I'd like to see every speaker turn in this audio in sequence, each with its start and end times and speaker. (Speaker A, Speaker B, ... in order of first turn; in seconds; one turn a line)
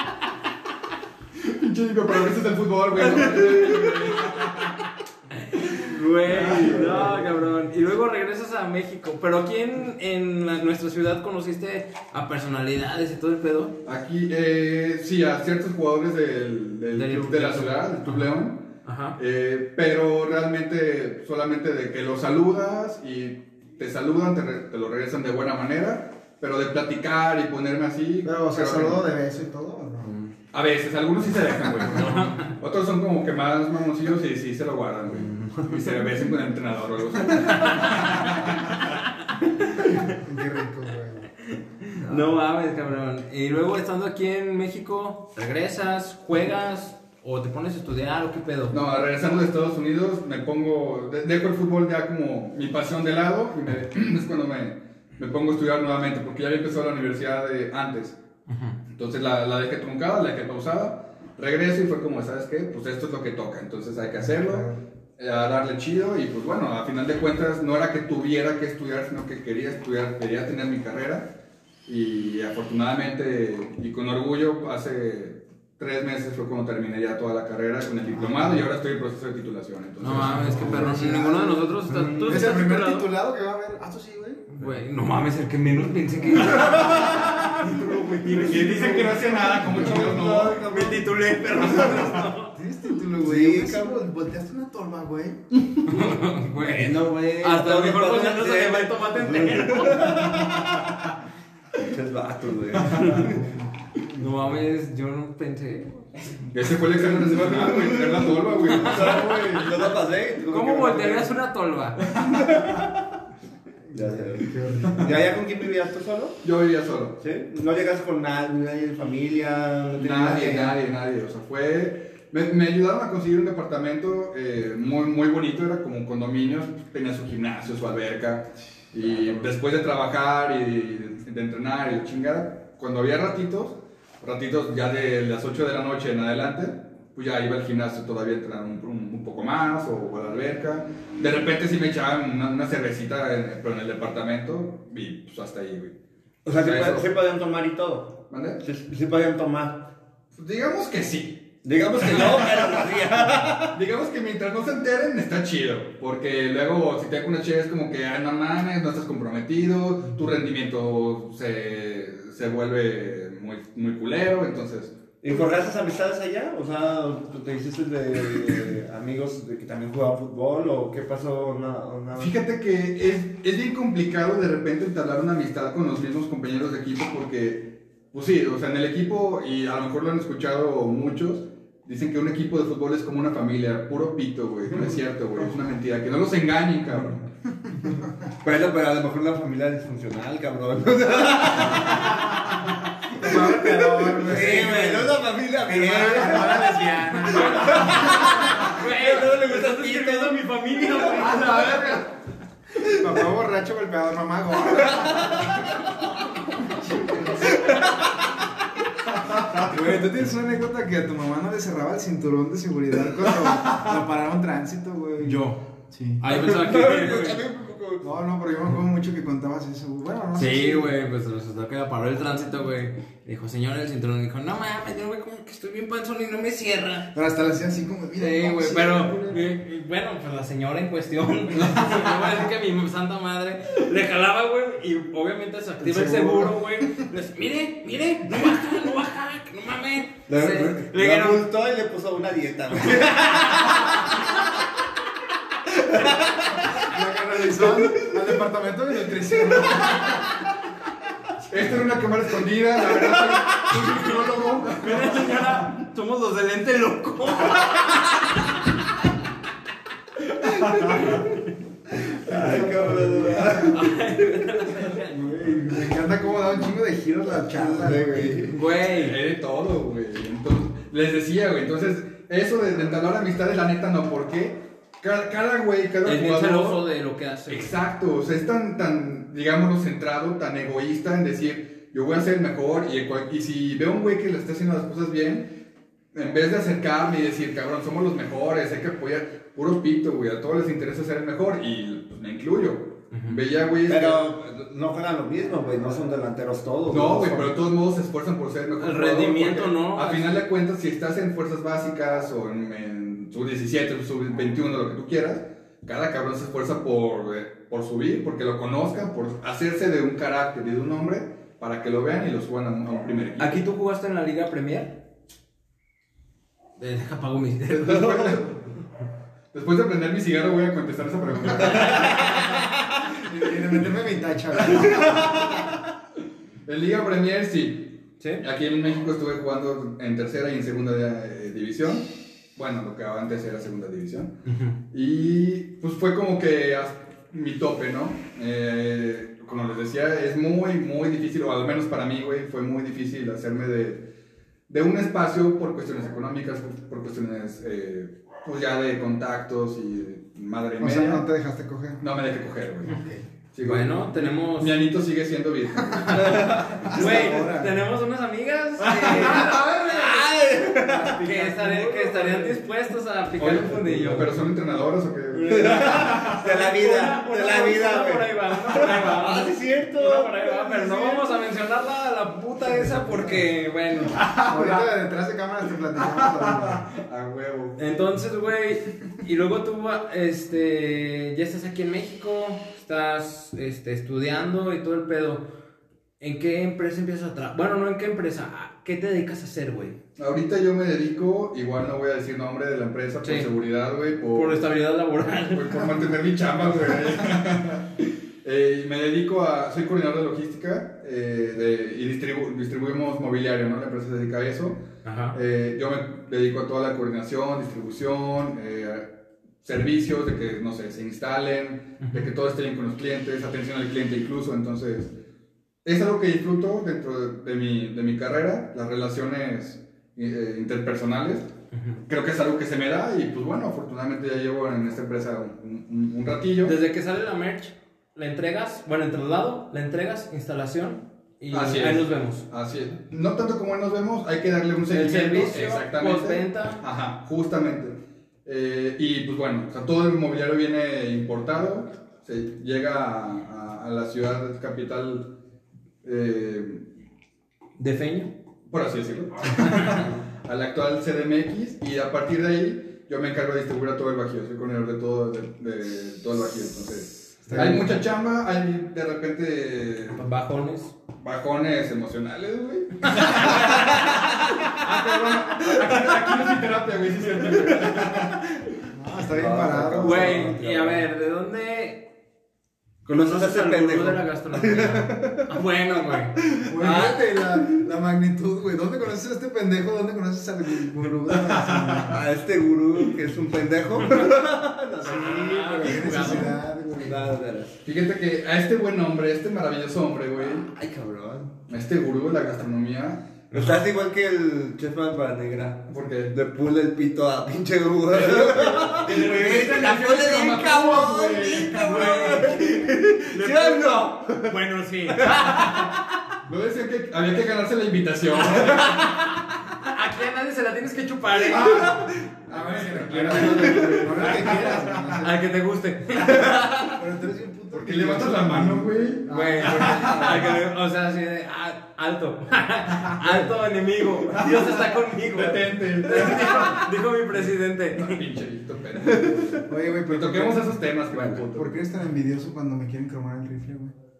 Speaker A: 1.4-4.8
Speaker B: 3.3-3.8
Speaker C: 5.5-13.7
Speaker B: 6.2-7.0
Speaker A: 6.3-7.1
Speaker A: 13.8-29.1
Speaker C: 16.9-18.3
Speaker C: 18.8-19.2
Speaker D: 28.2-30.1
Speaker A: 30.5-39.0
Speaker C: 31.9-32.5
Speaker B: 35.2-35.7
Speaker C: 37.4-38.1
Speaker D: 40.0-41.3
Speaker C: 41.5-48.8
Speaker B: 42.0-42.3
Speaker A: 48.7-58.2
Speaker C: 58.5-58.8
Speaker A: 58.9-71.3
Speaker D: 64.3-64.8
Speaker A: 71.8-80.8
Speaker C: 80.0-83.1
Speaker D: 80.1-84.5
Speaker B: 81.9-82.4
Speaker C: 84.5-89.2
Speaker A: 88.3-90.7
Speaker D: 88.3-90.3
Speaker B: 88.8-92.1
Speaker C: 90.5-92.5
Speaker D: 91.7-95.4
Speaker B: 93.2-94.0
Speaker C: 95.8-100.4
Speaker B: 96.5-100.9
Speaker B: 101.8-103.4
Speaker D: 103.1-104.4
Speaker C: 104.2-106.1
Speaker A: 106.5-109.7
Speaker B: 106.9-111.3
Speaker C: 108.7-109.5
Speaker C: 110.5-112.1
Speaker B: 112.1-113.0
Speaker D: 113.9-115.3
Speaker B: 113.9-116.4
Speaker A: 114.8-115.1
Speaker A: 116.4-117.2
Speaker B: 117.2-120.8
Speaker A: 120.0-145.9
Speaker B: 146.4-149.9
Speaker A: 146.5-147.1
Speaker A: 148.3-148.6
Speaker A: 150.4-152.7
Speaker B: 151.6-153.8
Speaker A: 153.7-164.9
Speaker B: 165.2-172.3
Speaker A: 172.2-187.3
Speaker B: 188.4-192.4
Speaker D: 193.1-198.3
Speaker B: 193.2-196.8
Speaker C: 197.1-202.0
Speaker B: 197.3-201.4
Speaker D: 201.2-202.0
Speaker D: 202.8-205.6
Speaker B: 204.8-205.4
Speaker D: 206.7-207.6
Speaker B: 207.4-208.0
Speaker D: 209.5-216.2
Speaker C: 215.2-215.6
Speaker C: 216.2-217.4
Speaker B: 216.3-218.1
Speaker D: 218.0-220.9
Speaker C: 220.3-227.1
Speaker D: 227.1-229.5
Speaker C: 228.2-241.5
Speaker D: 235.8-236.7
Speaker B: 240.3-244.1
Speaker C: 243.1-243.8
Speaker B: 245.7-246.7
Speaker D: 246.6-250.2
Speaker B: 247.4-248.3
Speaker A: 251.5-255.6
Speaker C: 253.7-254.0
Speaker C: 254.7-258.5
Speaker A: 260.4-261.2
Speaker B: 260.6-261.2
Speaker C: 261.0-261.4
Speaker B: 262.0-263.9
Speaker D: 262.3-263.7
Speaker C: 263.6-265.1
Speaker D: 265.1-268.6
Speaker B: 267.6-268.6
Speaker C: 268.5-269.2
Speaker A: 268.8-276.8
Speaker C: 276.0-277.7
Speaker A: 277.5-285.6
Speaker A: 286.1-294.3
Speaker C: 293.1-293.4
Speaker B: 293.9-297.6
Speaker A: 296.9-313.6
Speaker C: 298.8-300.3
Speaker C: 313.4-315.0
Speaker C: 316.8-318.3
Speaker A: 317.7-318.7
Speaker A: 319.5-322.6
Speaker D: 323.2-325.5
Speaker A: 324.7-325.2
Speaker A: 326.6-334.3
Speaker C: 334.4-334.8
Speaker A: 334.9-344.1
Speaker A: 344.7-351.2
Speaker D: 350.8-352.0
Speaker A: 352.0-353.0
Speaker D: 352.8-353.2
Speaker A: 353.5-357.0
Speaker C: 353.6-354.7
Speaker C: 356.0-360.2
Speaker B: 356.1-356.9
Speaker D: 356.6-357.9
Speaker A: 358.9-359.3
Speaker B: 359.1-361.6
Speaker D: 360.8-362.6
Speaker C: 361.2-364.3
Speaker A: 363.4-366.4
Speaker B: 365.3-371.4
Speaker C: 365.6-374.2
Speaker D: 372.6-373.4
Speaker A: 374.1-374.9
Speaker D: 374.4-376.9
Speaker A: 375.9-377.8
Speaker C: 377.8-385.5
Speaker C: 386.2-390.0
Speaker A: 390.2-394.7
Speaker C: 393.2-393.5
Speaker C: 394.3-396.1
Speaker A: 395.4-415.1
Speaker C: 405.0-405.4
Speaker C: 412.0-412.3
Speaker A: 415.8-421.5
Speaker C: 421.7-422.0
Speaker A: 422.1-426.8
Speaker C: 426.6-432.4
Speaker A: 431.5-445.3
Speaker C: 434.9-436.8
Speaker A: 446.0-446.9
Speaker C: 447.8-448.3
Speaker A: 448.7-460.2
Speaker C: 449.6-449.9
Speaker D: 457.4-457.9
Speaker C: 457.5-457.8
Speaker C: 460.1-460.9
Speaker A: 461.2-468.4
Speaker C: 463.1-464.2
Speaker B: 467.7-468.3
Speaker D: 468.9-470.5
Speaker B: 469.2-471.1
Speaker C: 470.0-472.1
Speaker C: 473.0-476.4
Speaker B: 473.1-475.5
Speaker B: 476.5-477.7
Speaker D: 476.6-482.2
Speaker A: 481.5-481.9
Speaker B: 482.1-487.7
Speaker D: 485.0-487.3
Speaker C: 485.0-486.6
Speaker A: 487.8-490.7
Speaker B: 490.4-491.6
Speaker A: 491.7-493.4
Speaker B: 493.5-506.1
Speaker A: 495.9-496.3
Speaker A: 498.1-502.6
Speaker C: 501.7-505.9
Speaker A: 506.4-509.2
Speaker C: 508.6-512.0
Speaker A: 511.5-515.2
Speaker B: 511.5-512.1
Speaker D: 512.5-515.4
Speaker B: 513.3-514.4
Speaker C: 515.2-517.0
Speaker D: 516.8-520.5
Speaker A: 517.7-520.5
Speaker C: 519.3-528.2
Speaker A: 524.3-526.8
Speaker A: 527.9-531.8
Speaker B: 529.1-529.6
Speaker D: 529.6-530.8
Speaker D: 531.4-533.9